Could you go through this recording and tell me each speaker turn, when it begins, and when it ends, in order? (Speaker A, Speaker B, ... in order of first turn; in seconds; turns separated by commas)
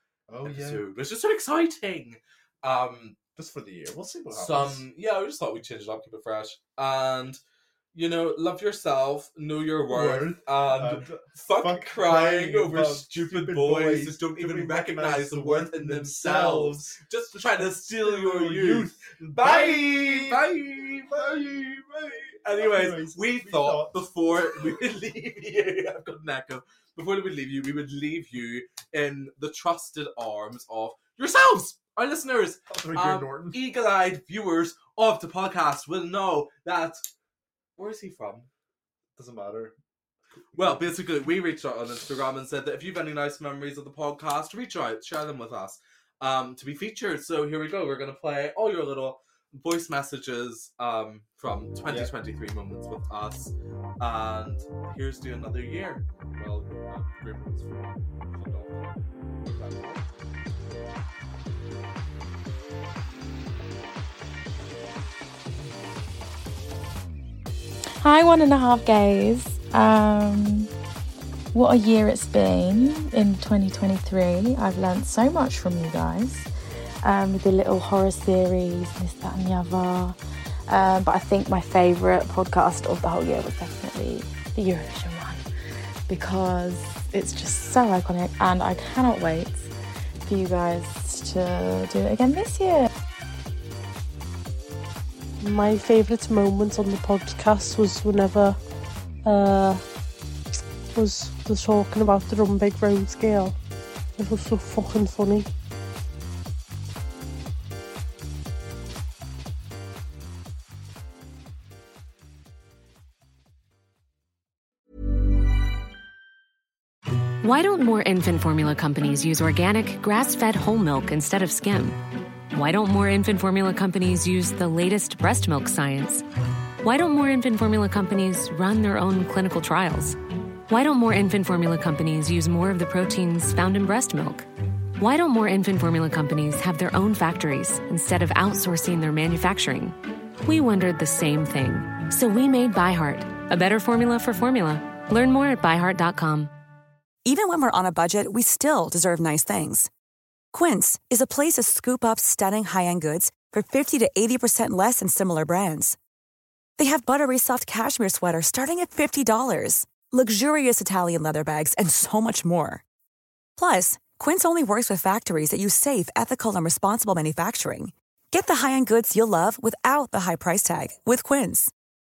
Speaker A: 0.3-0.8, Speaker B: 0.4-3.1, Speaker A: 3.4-4.8, Speaker B: 4.3-7.4, Speaker B: 7.9-21.3, Speaker A: 9.9-20.5, Speaker A: 21.0-24.0, Speaker B: 22.4-37.1, Speaker A: 32.7-33.6, Speaker B: 37.8-38.5, Speaker A: 39.1-39.7, Speaker B: 40.5-56.0, Speaker A: 51.8-52.1, Speaker A: 56.3-60.1, Speaker C: 68.0-70.7, Speaker C: 71.5-76.5, Speaker C: 77.0-80.2, Speaker C: 80.7-85.5, Speaker C: 86.1-89.7, Speaker C: 90.2-92.9, Speaker D: 95.4-98.6, Speaker D: 99.2-99.8, Speaker D: 100.9-103.5, Speaker D: 104.2-105.5, Speaker E: 117.4-126.2, Speaker E: 126.8-134.5, Speaker E: 135.0-146.5, Speaker F: 147.2-149.9, Speaker F: 150.5-156.0, Speaker F: 156.8-162.8, Speaker F: 163.6-171.7